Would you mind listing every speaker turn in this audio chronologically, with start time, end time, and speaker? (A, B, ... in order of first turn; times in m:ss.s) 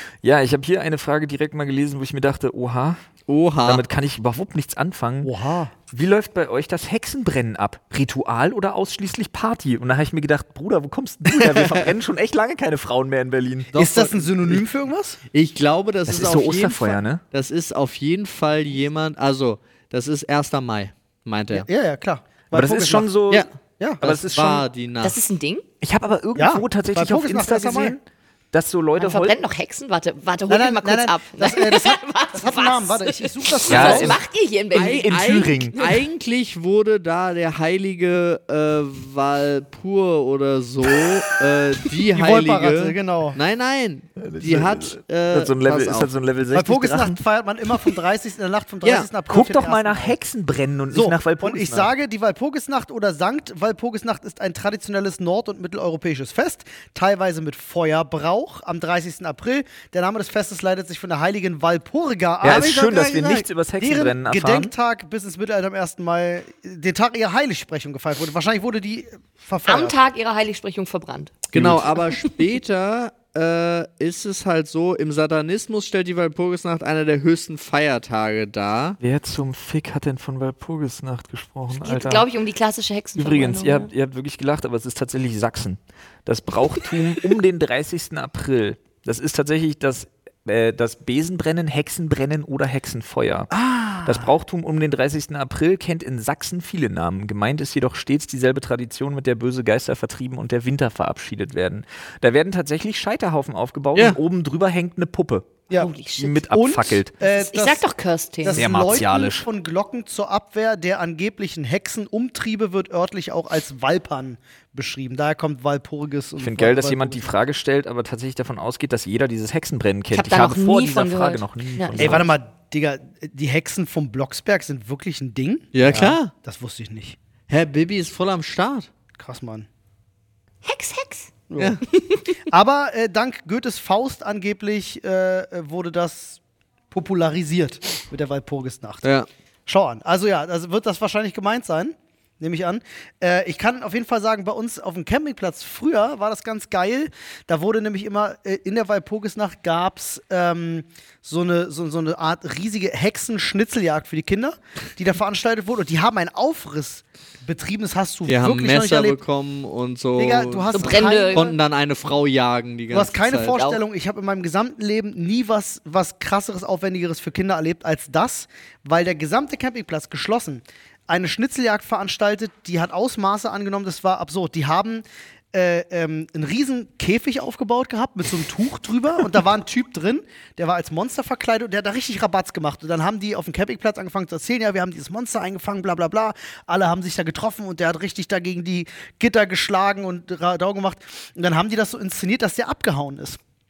0:00.2-0:03.0 A
0:03.3-0:03.8 B
0:03.6-0:05.3 A
0:05.2-0:05.7 C
0:05.9-0:13.7 A
0:11.3-0:11.9 B
0:13.7-0:14.6 B
0:13.7-0:15.2 C
0:15.3-0:21.7 B
0:16.1-0:17.2 A
0:21.5-0:23.1 C
0:22.5-0:23.5 A
0:23.8-0:24.0 C
0:24.0-0:24.6 A
0:24.0-0:25.2 B
0:25.0-0:25.6 D
0:25.8-0:29.4 A
0:26.4-0:28.0 C
0:29.0-0:36.0 D
0:30.5-0:34.2 C
0:33.7-0:35.8 A
0:34.7-0:46.1 B
0:42.1-0:43.4 C
0:44.2-0:47.2 A
0:46.5-0:50.2 C
0:48.8-0:49.1 B
0:49.3-0:51.9 A
0:50.9-1:10.0 C
1:02.4-1:04.7 A
1:02.5-1:02.8 B
1:09.6-1:12.4 D
1:11.5-1:19.0 B
1:11.5-1:11.8 A
1:19.0-1:22.3 A
1:21.8-1:23.9 D
1:23.2-1:33.5 A
1:33.6-1:34.3 C
1:34.0-1:47.1 A
1:45.7-1:47.9 C
1:45.7-1:46.4 D
1:47.2-1:48.7 D
1:48.4-1:57.3 C
1:48.5-1:49.5 A
1:56.4-2:02.3 A
2:00.1-2:02.2 D
2:02.0-2:07.2 C
2:05.7-2:06.3 B
2:07.5-2:08.9 B
2:09.2-2:09.7 C
2:10.6-2:11.3 D
2:11.5-2:11.8 C
2:11.9-2:12.4 D
2:12.4-2:16.4 C
2:16.9-2:19.0 C
2:19.0-2:19.3 B
2:19.7-2:39.2 C
2:38.3-2:43.6 B
2:40.2-2:41.6 C
2:40.7-2:41.4 D
2:42.9-3:13.4 C
2:43.4-2:43.8 D